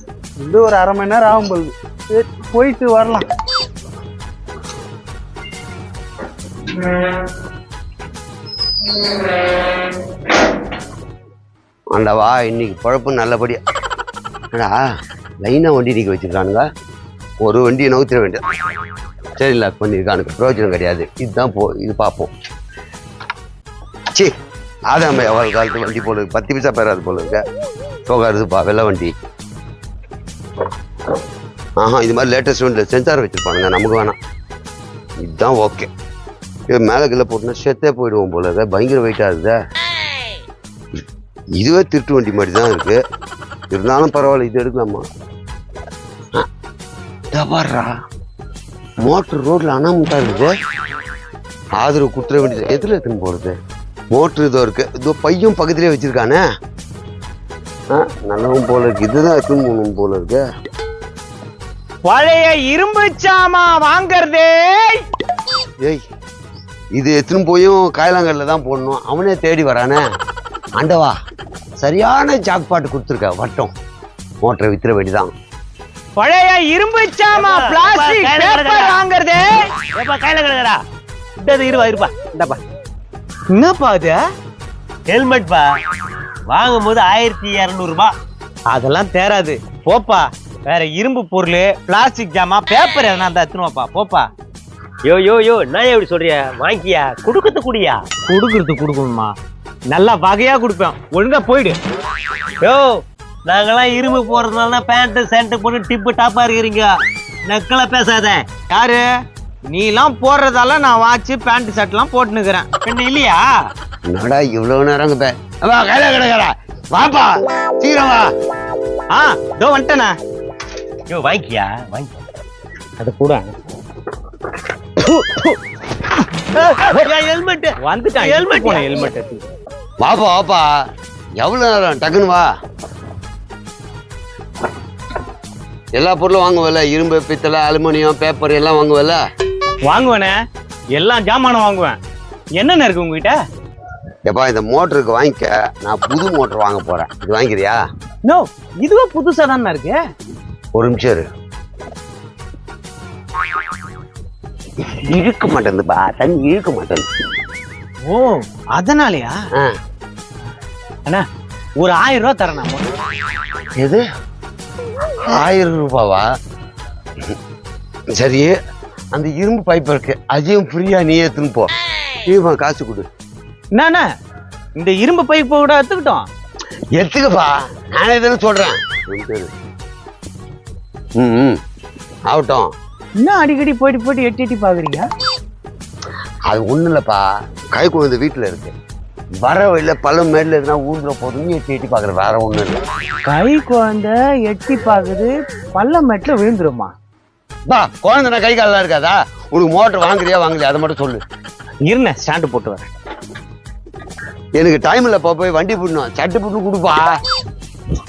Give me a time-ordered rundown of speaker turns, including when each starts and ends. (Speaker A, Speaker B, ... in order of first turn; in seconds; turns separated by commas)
Speaker A: 0.4-3.2, Speaker B: 11.9-13.6, Speaker B: 14.5-14.8, Speaker B: 15.4-16.6, Speaker B: 17.4-18.4, Speaker B: 19.4-22.3, Speaker B: 24.9-27.4, Speaker B: 28.1-29.1, Speaker B: 31.8-34.2, Speaker B: 35.2-35.9, Speaker B: 36.7-39.6, Speaker B: 41.6-43.0, Speaker B: 43.7-45.0, Speaker B: 47.3-47.9, Speaker B: 49.0-50.5, Speaker B: 51.8-53.6, Speaker B: 54.1-56.4, Speaker B: 57.9-60.4, Speaker C: 62.0-65.0, Speaker B: 67.0-70.0, Speaker B: 70.8-71.1, Speaker B: 71.8-73.7, Speaker B: 74.4-75.3, Speaker C: 76.2-79.7, Speaker D: 77.3-79.0, Speaker D: 80.0-80.8, Speaker C: 81.5-81.8, Speaker D: 81.7-82.6, Speaker C: 83.5-84.2, Speaker D: 85.1-85.7, Speaker D: 86.5-88.1, Speaker C: 88.7-94.3, Speaker D: 95.0-98.0, Speaker C: 98.3-99.3, Speaker C: 99.9-101.8, Speaker D: 102.6-106.9, Speaker D: 107.5-108.5, Speaker C: 108.7-109.0, Speaker C: 109.7-112.7, Speaker D: 112.8-113.5, Speaker B: 114.1-118.3, Speaker C: 119.1-120.1, Speaker D: 121.1-122.2, Speaker C: 123.0-123.5, Speaker C: 125.0-125.6, Speaker D: 126.6-129.1, Speaker C: 127.8-129.4, Speaker B: 130.0-130.7, Speaker B: 131.4-132.5, Speaker B: 136.0-139.2, Speaker C: 139.9-140.4, Speaker C: 140.9-142.0, Speaker C: 142.6-143.4, Speaker B: 144.3-147.8, Speaker C: 148.2-150.0, Speaker B: 150.8-151.3, Speaker B: 155.0-157.1, Speaker C: 158.1-159.3, Speaker C: 161.8-162.9, Speaker B: 163.8-164.0, Speaker B: 165.3-166.3, Speaker B: 168.2-168.6, Speaker B: 169.1-171.7, Speaker B: 172.2-173.1, Speaker C: 173.7-174.1, Speaker C: 174.8-176.3, Speaker B: 176.9-179.5, Speaker B: 181.2-181.6, Speaker B: 182.3-182.7, Speaker C: 183.2-185.1, Speaker B: 186.5-188.7, Speaker B: 189.4-192.8, Speaker C: 193.3-196.9, Speaker B: 197.7-201.2, Speaker C: 201.8-202.9, Speaker B: 204.6-207.2